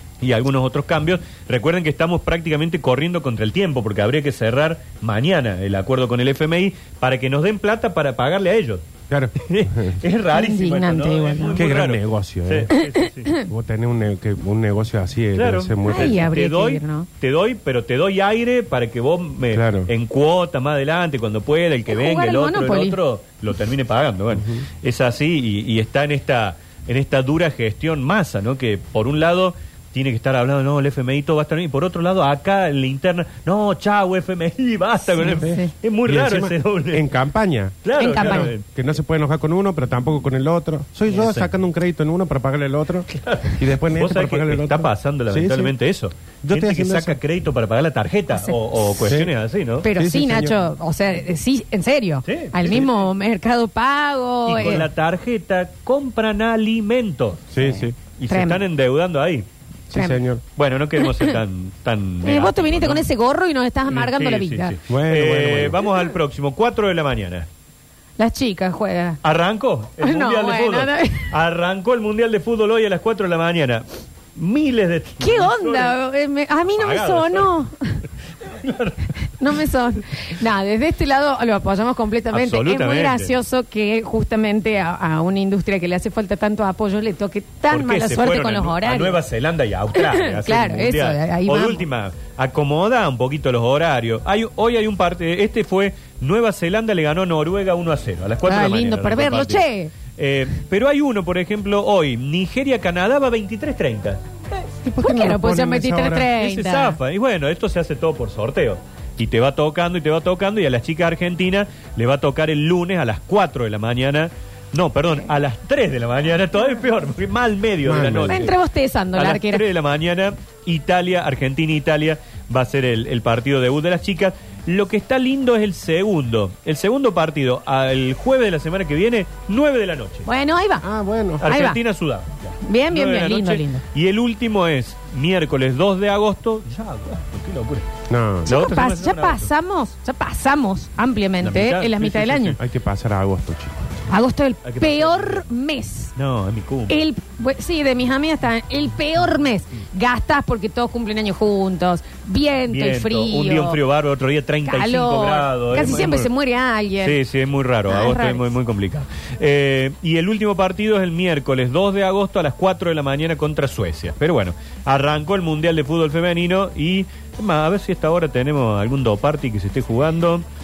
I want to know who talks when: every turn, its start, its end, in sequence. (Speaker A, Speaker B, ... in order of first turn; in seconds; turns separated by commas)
Speaker A: 0.2-8.8, Speaker B: 9.1-10.0, Speaker A: 9.4-13.3, Speaker C: 10.3-11.7, Speaker B: 11.6-12.7, Speaker C: 12.7-13.4, Speaker B: 13.4-16.3, Speaker A: 15.3-37.0, Speaker C: 15.8-17.1, Speaker B: 19.5-19.9, Speaker C: 21.9-23.0, Speaker C: 35.1-35.7, Speaker B: 35.3-45.7, Speaker A: 37.8-38.6, Speaker C: 38.0-38.5, Speaker A: 41.1-41.5, Speaker A: 43.1-49.9, Speaker B: 46.4-47.2, Speaker B: 49.0-49.3, Speaker C: 49.8-54.8, Speaker B: 49.9-50.6, Speaker A: 52.2-53.0, Speaker A: 54.5-59.5, Speaker B: 57.5-57.9, Speaker C: 58.3-58.6, Speaker B: 59.9-60.4, Speaker C: 59.9-60.2, Speaker A: 60.5-63.1, Speaker C: 61.0-61.4, Speaker C: 62.2-64.7, Speaker A: 63.9-67.5, Speaker B: 64.9-65.8, Speaker C: 68.2-69.2, Speaker A: 69.2-75.9, Speaker C: 70.0-71.3, Speaker C: 75.2-78.0, Speaker A: 76.7-77.5, Speaker A: 78.4-79.1, Speaker C: 79.4-89.2, Speaker A: 82.3-83.3, Speaker A: 87.7-104.2, Speaker C: 89.9-91.8, Speaker C: 98.5-99.9, Speaker B: 104.8-106.3, Speaker C: 105.0-107.0, Speaker A: 106.3-118.5, Speaker B: 117.8-118.5, Speaker C: 118.3-119.6, Speaker A: 119.1-130.2, Speaker C: 130.2-130.8, Speaker B: 130.8-131.4, Speaker A: 131.4-137.9, Speaker C: 131.4-131.8, Speaker C: 132.6-133.8, Speaker B: 138.1-138.5, Speaker A: 138.4-139.5, Speaker C: 138.4-142.6, Speaker A: 141.4-142.6, Speaker B: 142.6-143.9, Speaker C: 144.1-146.1, Speaker A: 144.6-145.4, Speaker A: 146.2-147.0, Speaker C: 146.9-153.8, Speaker A: 152.7-156.3, Speaker C: 154.7-157.2, Speaker B: 155.9-156.2, Speaker A: 157.0-170.4, Speaker C: 157.9-158.6